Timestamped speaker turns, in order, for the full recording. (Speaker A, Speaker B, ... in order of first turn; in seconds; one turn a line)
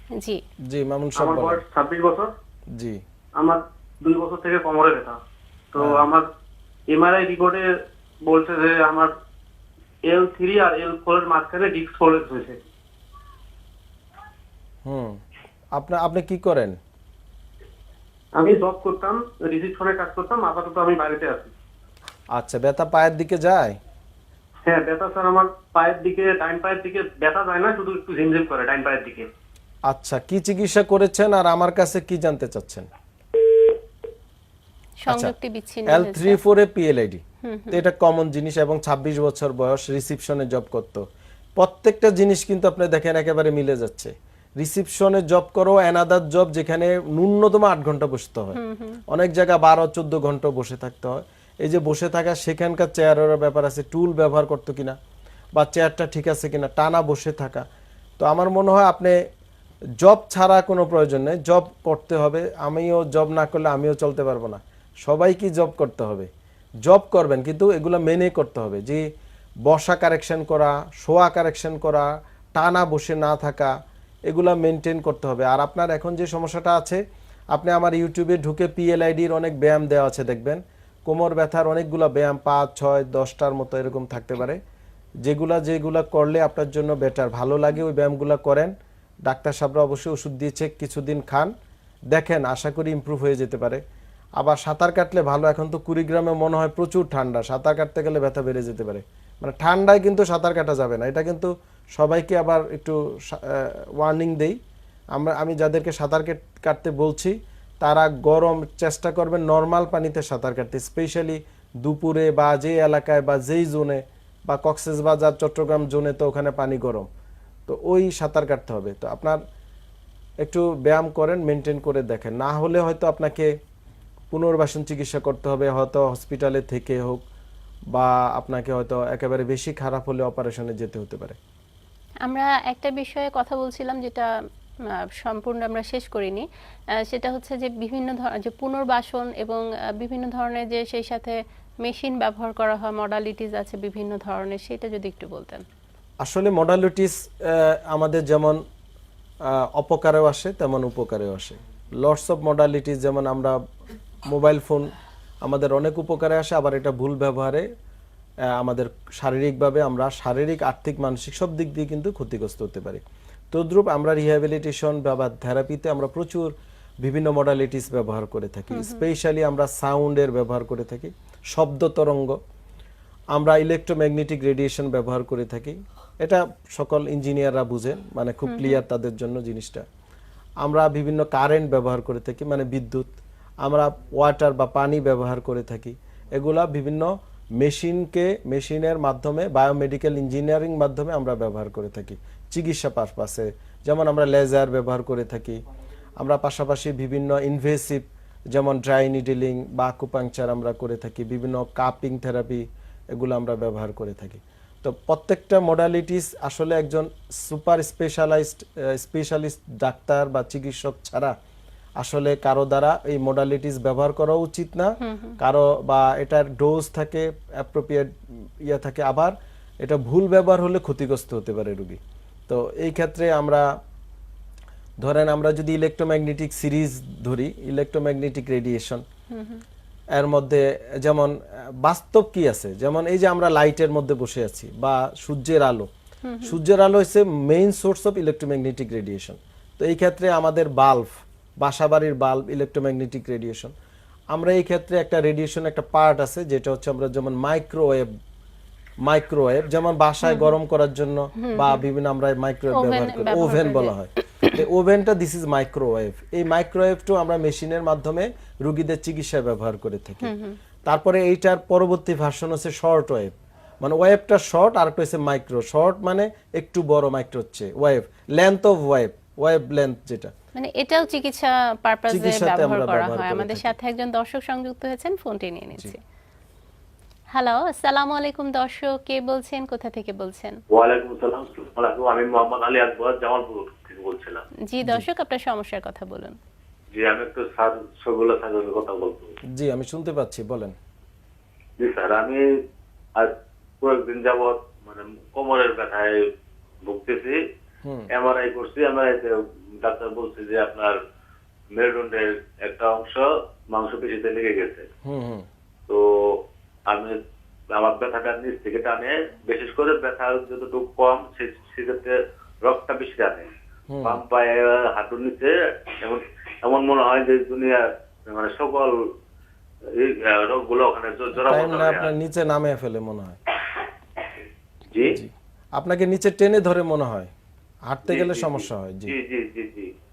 Speaker A: 0.7-1.6
Speaker B: 1.2-2.3
Speaker B: 3.4-5.2
Speaker B: 5.7-6.2
Speaker A: 5.8-6.1
Speaker B: 6.9-7.6
Speaker B: 8.2-9.1
Speaker B: 10.1-12.6
Speaker A: 14.8-15.2
Speaker A: 15.8-16.8
Speaker B: 18.4-21.5
Speaker A: 22.3-23.8
Speaker B: 24.6-29.3
Speaker A: 29.9-32.9
Speaker C: 35.0-36.4
Speaker A: 35.1-35.3
Speaker A: 35.9-41.0
Speaker C: 37.4-37.8
Speaker A: 41.6-48.6
Speaker C: 48.5-49.0
Speaker A: 49.1-55.0
Speaker A: 55.5-57.6
Speaker A: 58.2-59.1
Speaker A: 60.0-66.3
Speaker A: 66.8-69.0
Speaker A: 69.6-73.7
Speaker A: 74.3-77.0
Speaker A: 77.5-84.6
Speaker A: 85.2-88.7
Speaker A: 89.2-91.5
Speaker A: 92.1-93.8
Speaker A: 94.4-104.6
Speaker A: 105.1-117.1
Speaker A: 117.7-119.4
Speaker A: 120.4-123.5
Speaker A: 124.3-127.2
Speaker A: 127.9-131.4
Speaker C: 132.2-134.3
Speaker C: 135.2-136.4
Speaker C: 137.0-145.6
Speaker A: 146.2-148.6
Speaker A: 149.4-153.6
Speaker A: 154.3-154.9
Speaker A: 155.4-157.6
Speaker A: 158.6-172.4
Speaker C: 168.7-169.0
Speaker A: 173.3-179.8
Speaker C: 178.4-178.8
Speaker A: 180.6-195.6
Speaker A: 196.2-202.6
Speaker A: 203.1-211.3
Speaker A: 212.0-218.1
Speaker C: 215.0-215.3
Speaker A: 218.6-223.6
Speaker A: 225.0-229.0
Speaker C: 229.3-229.6
Speaker A: 230.1-235.9
Speaker C: 236.2-236.6
Speaker A: 236.4-243.7
Speaker A: 244.3-248.1
Speaker A: 249.0-260.3
Speaker C: 250.2-250.5
Speaker C: 251.4-251.8
Speaker C: 252.7-253.9
Speaker C: 260.2-260.6
Speaker A: 260.9-270.3
Speaker C: 270.5-276.0
Speaker A: 272.1-273.8
Speaker C: 277.3-280.6
Speaker D: 280.7-284.4
Speaker C: 284.7-286.4
Speaker D: 286.9-289.3
Speaker A: 289.6-290.7
Speaker D: 291.8-292.4
Speaker D: 293.1-296.2
Speaker D: 296.8-297.4
Speaker D: 298.1-301.0
Speaker D: 301.7-304.9
Speaker A: 305.0-305.5
Speaker D: 306.9-307.1
Speaker D: 307.7-313.5
Speaker A: 313.9-314.2
Speaker D: 314.0-318.9
Speaker D: 319.9-322.1
Speaker A: 321.3-323.4
Speaker D: 324.9-325.2
Speaker A: 325.1-327.3
Speaker A: 327.9-329.1
Speaker D: 328.1-329.9